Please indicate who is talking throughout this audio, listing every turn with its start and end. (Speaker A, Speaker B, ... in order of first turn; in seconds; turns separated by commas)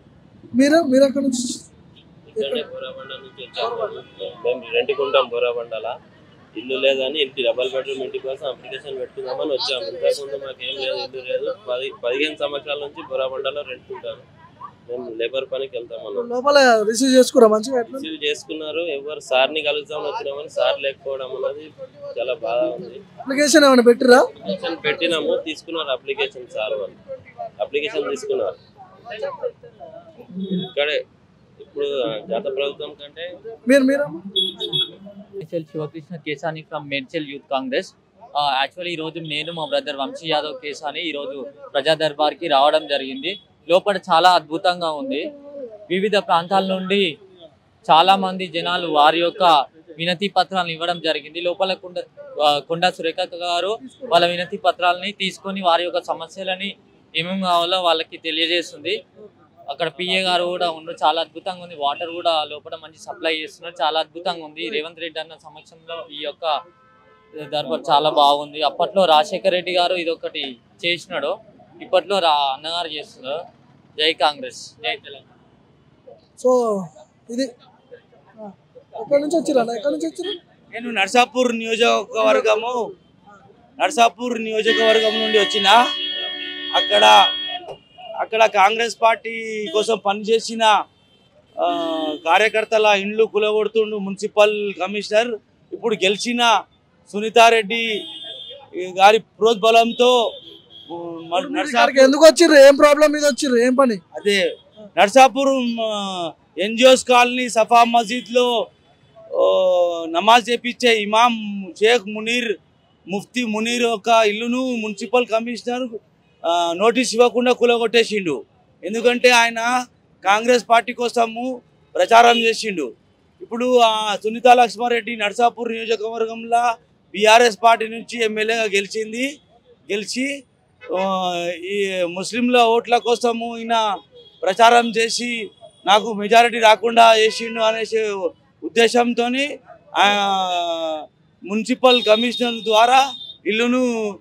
Speaker A: 0.6-1.6, Speaker B: 2.3-5.9, Speaker A: 2.4-2.6, Speaker B: 6.6-14.2, Speaker B: 14.9-16.3, Speaker A: 16.2-18.0, Speaker B: 17.9-23.0, Speaker A: 23.3-24.3, Speaker B: 24.4-27.0, Speaker B: 27.6-28.6, Speaker B: 30.7-31.0, Speaker B: 31.6-33.3, Speaker A: 33.7-34.2, Speaker C: 35.4-45.3, Speaker C: 45.9-47.1, Speaker C: 47.9-59.0, Speaker A: 53.8-54.2, Speaker C: 59.7-66.6, Speaker C: 67.4-73.4, Speaker C: 74.0-75.2, Speaker A: 76.4-77.5, Speaker A: 78.4-80.3, Speaker D: 80.7-82.8, Speaker D: 83.8-85.8, Speaker D: 86.8-87.1, Speaker D: 88.2-90.7, Speaker D: 91.6-96.5, Speaker D: 97.1-97.8, Speaker D: 98.8-100.2, Speaker D: 100.9-102.1, Speaker A: 101.3-104.0, Speaker D: 104.2-104.4, Speaker D: 105.0-108.5, Speaker D: 109.3-112.5, Speaker D: 113.1-116.0, Speaker D: 116.5-119.7, Speaker D: 120.2-122.9, Speaker D: 123.4-129.3, Speaker D: 129.9-130.3, Speaker D: 130.9-133.8, Speaker D: 134.4-135.3, Speaker D: 135.9-138.1, Speaker D: 138.7-139.5, Speaker D: 140.0-143.8